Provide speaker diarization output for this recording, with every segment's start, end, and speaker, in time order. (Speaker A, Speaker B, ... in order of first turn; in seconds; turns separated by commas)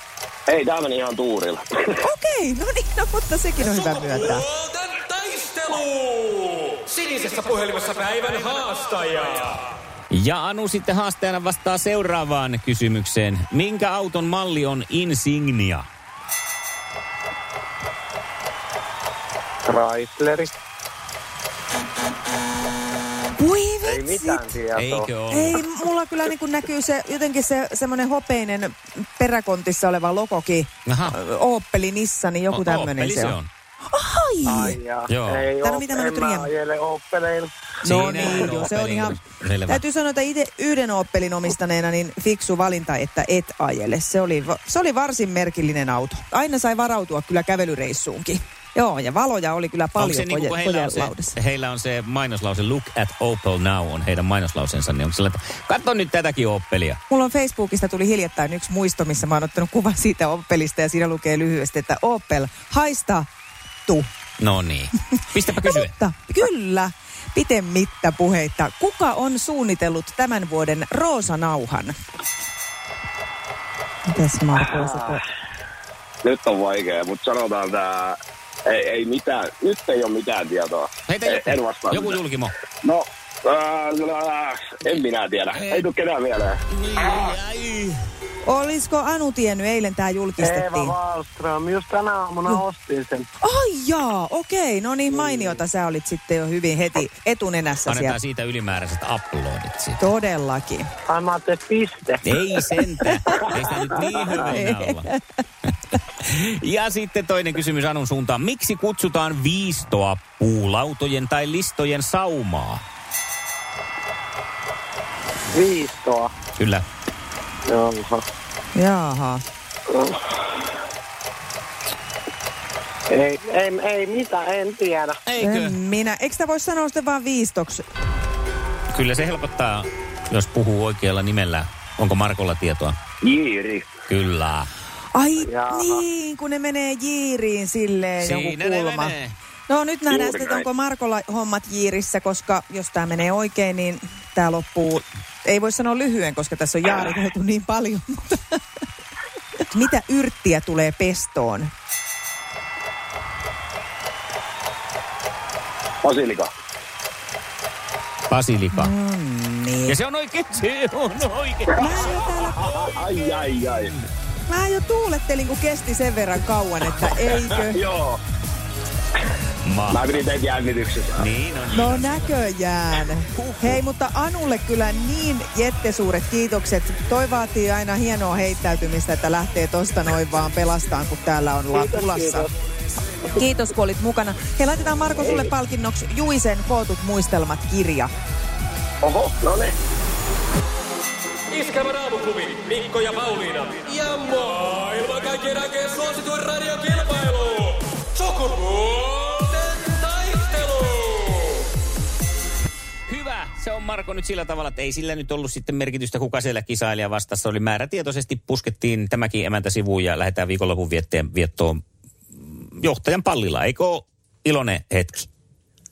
Speaker A: 0.5-2.0, Speaker B: 2.0-4.5, Speaker C: 3.7-9.6, Speaker D: 10.1-15.8, Speaker E: 19.7-20.5, Speaker B: 23.4-24.5, Speaker E: 23.9-25.1, Speaker D: 24.8-25.6, Speaker B: 25.3-33.4, Speaker D: 30.9-31.2, Speaker D: 32.5-33.5, Speaker B: 33.9-34.8, Speaker E: 34.5-37.5, Speaker D: 35.1-35.6, Speaker B: 35.6-36.5, Speaker D: 37.8-39.8, Speaker B: 37.8-51.3, Speaker D: 50.0-57.0, Speaker B: 57.1-63.3, Speaker D: 64.4-65.9, Speaker B: 65.6-71.9, Speaker B: 74.1-75.2, Speaker A: 76.2-82.2, Speaker D: 81.1-82.5, Speaker A: 82.8-87.2, Speaker D: 86.8-88.0, Speaker B: 88.5-91.0, Speaker E: 90.4-93.3, Speaker B: 93.4-98.2, Speaker D: 97.9-100.0, Speaker B: 100.0-100.9, Speaker E: 101.1-102.2, Speaker D: 102.2-105.1, Speaker B: 104.3-105.2, Speaker D: 106.2-112.8, Speaker E: 115.5-116.3, Speaker D: 116.6-116.8, Speaker E: 117.7-118.2, Speaker B: 118.8-119.4, Speaker E: 119.9-120.2, Speaker E: 123.1-125.2, Speaker D: 125.3-125.7, Speaker B: 125.4-127.8, Speaker D: 128.9-132.9, Speaker A: 133.2-133.9, Speaker D: 134.1-134.7, Speaker B: 135.1-139.2, Speaker E: 135.5-136.0, Speaker D: 138.2-139.4, Speaker B: 139.7-148.6, Speaker A: 140.1-140.7, Speaker B: 149.7-151.7, Speaker A: 156.0-156.5, Speaker D: 158.3-158.9, Speaker B: 158.7-160.0, Speaker D: 159.9-162.1, Speaker B: 161.8-162.7, Speaker A: 161.9-164.0, Speaker B: 164.5-167.8, Speaker A: 167.0-168.2, Speaker D: 169.6-170.1, Speaker A: 169.9-171.3, Speaker D: 171.2-172.3, Speaker B: 171.7-182.5, Speaker D: 173.3-173.8, Speaker E: 181.8-182.5, Speaker B: 183.3-188.1, Speaker A: 189.0-189.7, Speaker C: 191.5-201.4, Speaker D: 203.1-211.8, Speaker D: 212.4-215.3